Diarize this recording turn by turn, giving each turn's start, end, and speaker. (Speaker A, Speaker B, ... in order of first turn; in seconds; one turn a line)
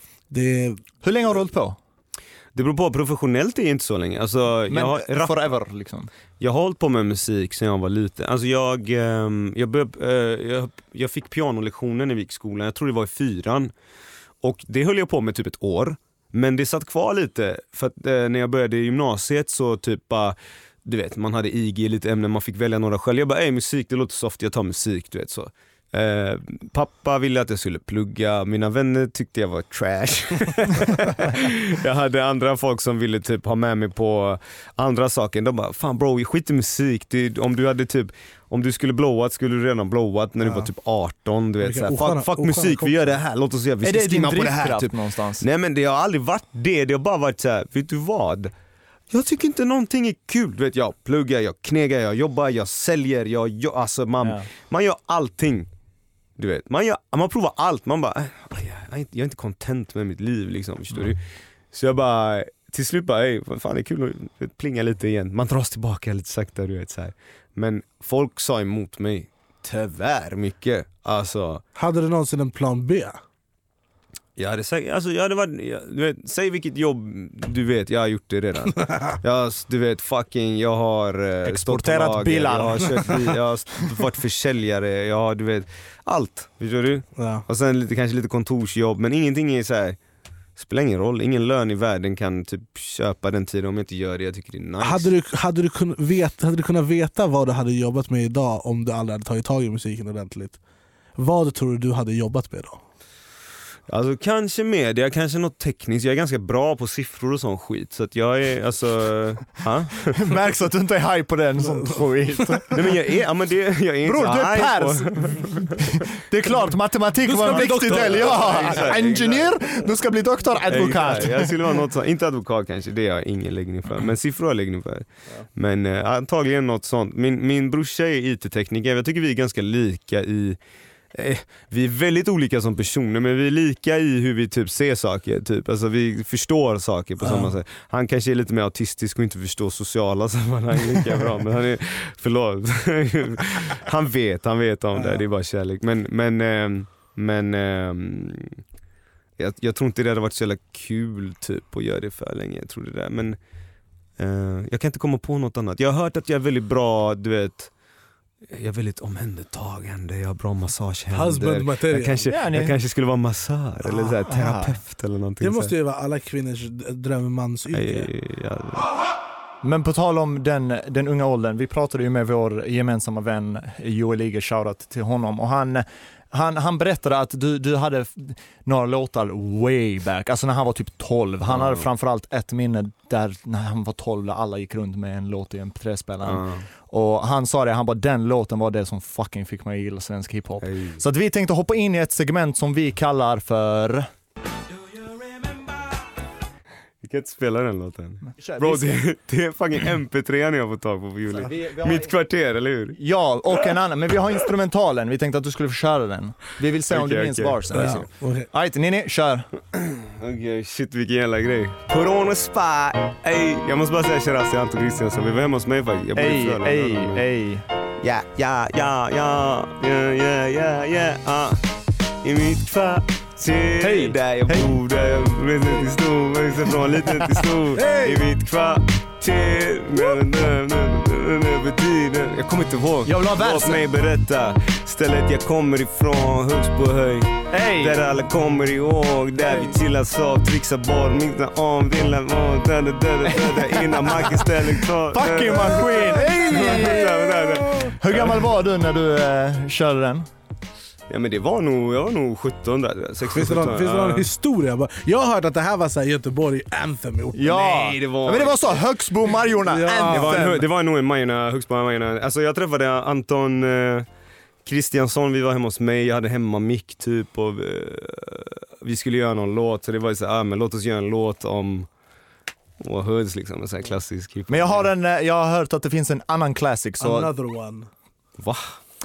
Speaker A: 0.3-0.8
Speaker B: 1.0-1.8
Speaker C: 2.5-5.4
Speaker B: 4.7-6.1
Speaker C: 6.4-13.7
Speaker C: 14.4-48.5
Speaker A: 40.4-40.7
Speaker A: 41.6-43.2
Speaker B: 43.8-45.4
Speaker C: 49.1-55.7
Speaker B: 54.2-54.5
Speaker C: 56.4-61.2
Speaker C: 61.7-71.6
Speaker A: 71.8-73.2
Speaker C: 74.3-90.0
Speaker B: 81.4-83.2
Speaker A: 87.2-87.4
Speaker C: 90.5-95.1
Speaker A: 94.8-100.6
Speaker A: 101.2-102.8
Speaker C: 103.9-110.2
Speaker B: 110.2-112.8
Speaker A: 111.6-112.6
Speaker C: 112.7-115.6
Speaker B: 114.0-121.6
Speaker A: 117.2-119.4
Speaker C: 117.5-119.5
Speaker C: 120.7-130.6
Speaker C: 131.1-148.6
Speaker A: 137.2-137.5
Speaker A: 144.9-145.2
Speaker C: 149.4-153.4
Speaker C: 154.2-157.7
Speaker C: 158.5-165.7
Speaker A: 161.1-162.3
Speaker B: 162.3-162.8
Speaker B: 163.8-164.8
Speaker A: 165.4-168.1
Speaker C: 167.7-168.9
Speaker B: 169.6-194.1
Speaker C: 181.4-181.8
Speaker C: 186.2-186.7
Speaker C: 190.6-191.0
Speaker B: 195.1-195.6
Speaker C: 197.0-203.0
Speaker B: 198.4-199.0
Speaker B: 201.3-202.1
Speaker B: 202.9-209.5
Speaker C: 206.9-207.9
Speaker A: 207.7-208.5
Speaker C: 209.7-217.2
Speaker B: 216.2-217.6
Speaker C: 218.0-221.6
Speaker C: 222.2-248.4
Speaker B: 223.8-224.7
Speaker B: 227.7-228.2
Speaker B: 233.0-233.8
Speaker B: 237.5-238.0
Speaker B: 239.4-239.8
Speaker B: 243.3-250.3
Speaker C: 251.1-254.3
Speaker A: 253.3-257.6
Speaker B: 257.3-260.6
Speaker C: 257.5-258.8
Speaker A: 259.7-260.5
Speaker C: 260.1-264.1
Speaker C: 264.6-271.9
Speaker C: 272.8-274.9
Speaker B: 274.5-277.3
Speaker A: 277.0-277.9
Speaker C: 278.4-278.8